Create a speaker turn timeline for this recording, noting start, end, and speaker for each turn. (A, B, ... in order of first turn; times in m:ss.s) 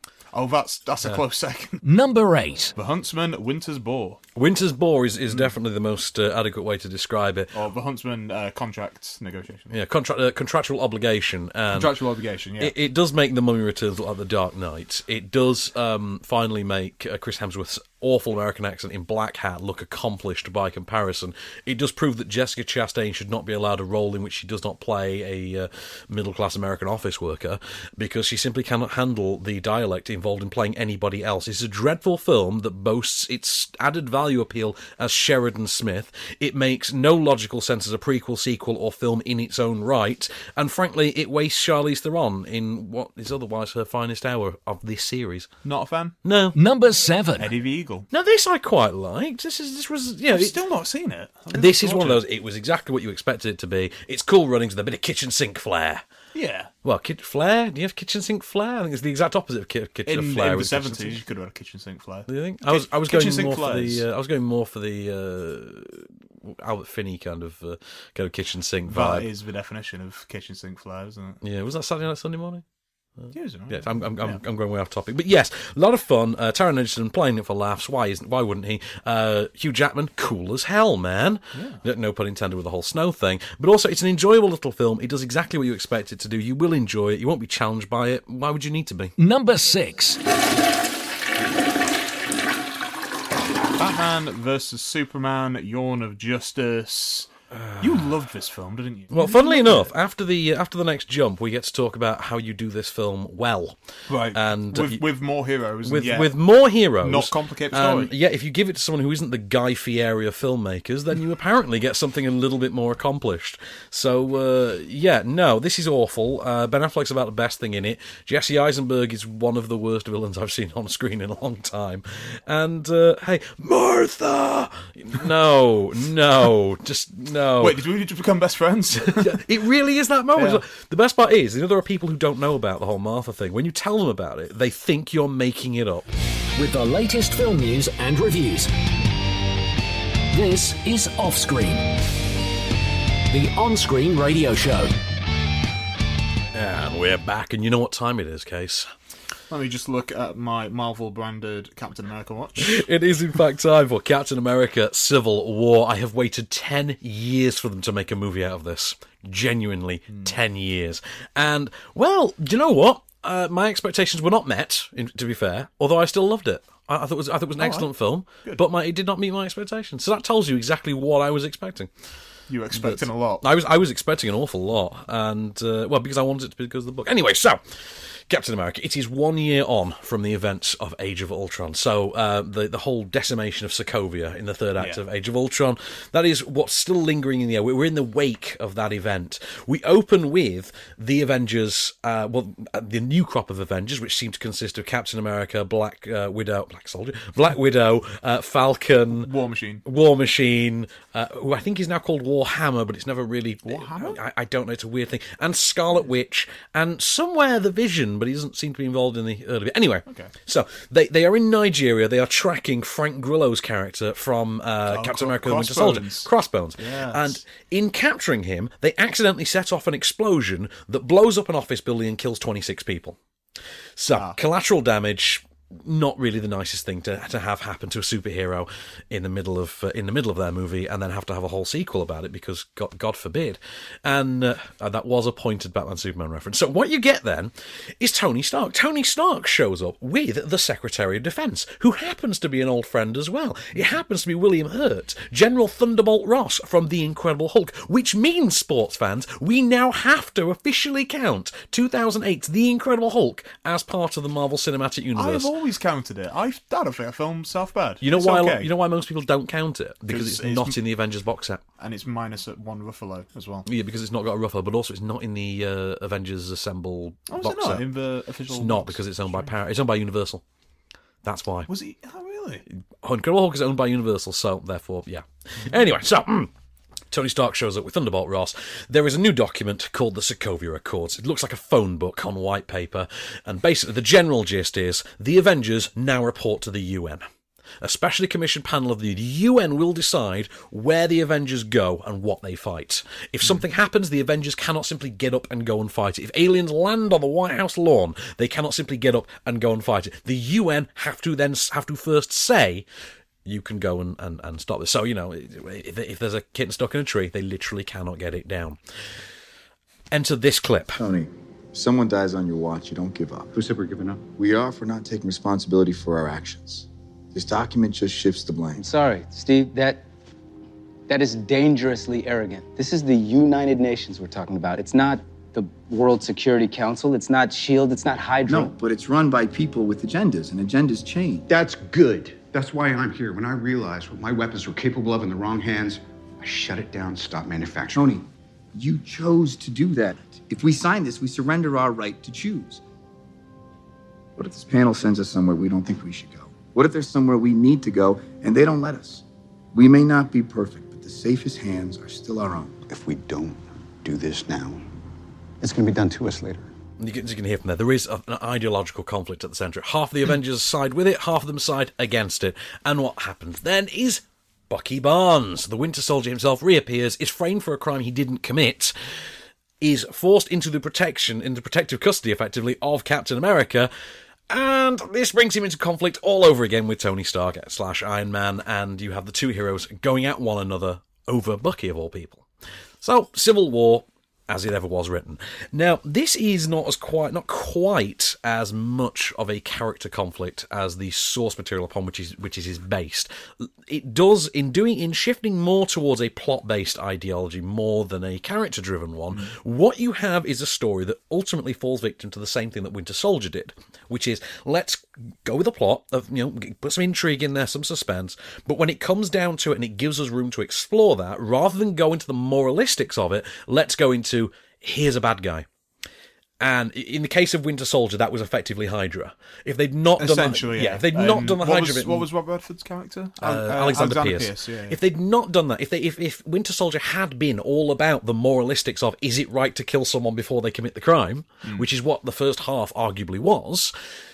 0:00.3-0:01.8 A
0:01.8-0:02.7 B
0:02.7-0:04.2 A
0:04.4-0:07.5 C
0:05.3-0:05.5 A
0:07.5-0:09.7 A
0:09.7-0:11.9 C
0:11.7-0:12.7 A
0:12.6-0:45.5 C
0:45.6-0:46.2 A
0:46.2-0:46.6 C
0:46.6-0:47.5 B
0:47.4-0:48.1 A
0:48.1-0:50.5 C
0:50.3-0:52.2 A
0:51.5-0:56.0 C
0:56.3-0:56.7 A
0:56.8-1:01.2 C
1:00.0-1:04.0 A
1:02.3-1:09.3 C
1:08.9-1:11.4 A
1:11.4-1:12.6 C
1:13.2-1:29.1 C
1:13.3-1:14.4 A
1:21.5-1:21.8 A
1:29.2-1:30.2 B
1:33.8-1:37.3 A
1:37.5-1:38.0 C
1:37.8-1:39.9 A
1:39.1-1:43.8 C
1:44.1-1:46.3 A
1:44.3-1:45.0 C
1:45.8-2:07.8 C
1:47.0-1:48.1 A
2:07.6-2:09.4 A
2:09.0-2:16.0 C
2:10.4-2:10.6 A
2:16.6-2:18.7 B
2:20.3-2:21.9 B
2:23.3-2:24.9 B
2:26.5-2:28.9 C
2:29.5-2:32.8 A
2:32.6-2:51.9 C
2:40.1-2:40.4 A
2:47.6-2:48.6 A
2:52.5-2:53.4 A
2:52.7-3:19.3 C
3:19.2-3:19.8 A
3:19.8-3:43.2 C
3:23.6-3:24.2 A
3:34.9-3:37.4 A
3:44.0-4:15.5 C
3:44.1-3:44.4 A
4:15.2-4:18.7 A
4:18.0-4:21.6 C
4:20.1-4:20.8 A
4:21.8-4:23.6 A
4:23.6-4:27.9 C
4:27.3-4:29.5 A
4:28.5-4:30.4 C
4:31.2-4:31.7 C
4:31.7-4:32.6 A
4:33.0-4:36.5 C
4:37.1-4:47.2 C
4:47.8-5:02.8 C
5:03.4-5:08.8 C
5:10.1-5:11.0 C
5:11.0-5:13.6 D
5:13.5-5:14.3 E
5:14.3-5:18.9 D
5:18.8-5:20.0 F
5:21.1-5:28.7 F
5:28.4-5:31.5 D
5:31.5-5:38.2 E
5:38.7-5:42.8 D
5:44.4-5:52.9 D
5:52.8-5:54.8 E
5:55.6-5:56.7 E
5:57.0-6:08.9 C
6:09.8-6:13.9 C
6:14.5-6:22.4 C
6:23.0-6:55.6 C
6:56.6-7:02.2 C
7:00.2-7:05.0 A
7:03.4-7:13.9 C